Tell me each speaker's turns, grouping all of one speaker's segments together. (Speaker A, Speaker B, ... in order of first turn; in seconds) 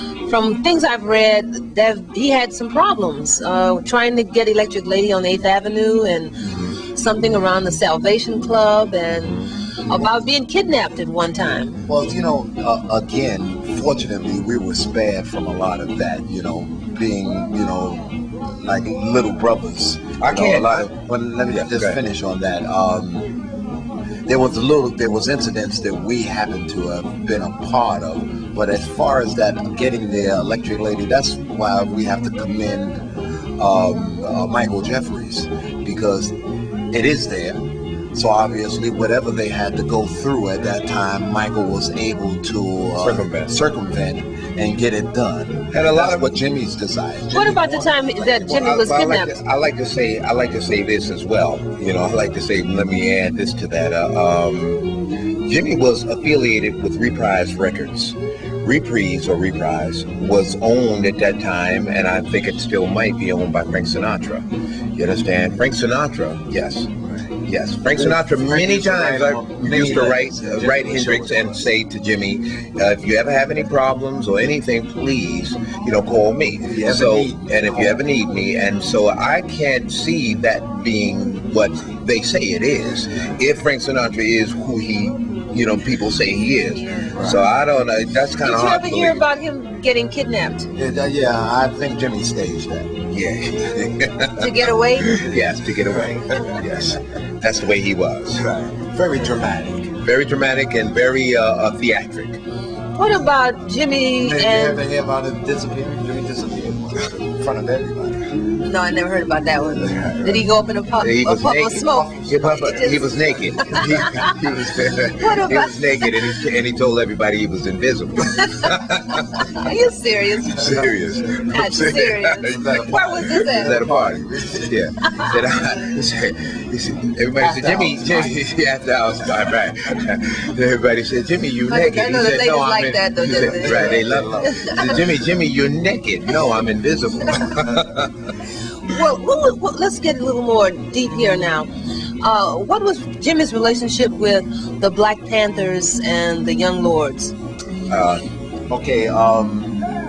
Speaker A: 0.2-11.8, 47.3-49.4, 86.7-87.1, 88.4-90.7, 94.4-95.3, 103.0-104.8, 108.6-114.3, 115.2-116.2, 118.4-120.8, 121.5-123.8, 131.7-134.9, 137.3-137.6, 138.8-141.7, 142.2-147.3
Speaker B: 6.4-6.8, 9.2-10.0, 20.2-20.9, 21.5-22.0, 43.0-43.5, 45.7-46.4, 48.2-54.9, 55.4-66.9, 67.4-89.2, 93.1-98.5, 100.0-102.4, 109.8-110.4, 111.0-119.5, 120.5-138.3, 147.9-148.2
Speaker C: 11.8-23.3, 24.3-33.0, 33.6-36.3, 36.9-48.0, 67.9-71.7, 76.6-78.0, 87.1-87.4, 90.8-93.0, 95.9-96.1, 98.4-100.0, 104.2-108.2, 120.6-120.9, 122.4-124.8, 127.3-128.4, 133.3-135.2, 148.7-149.8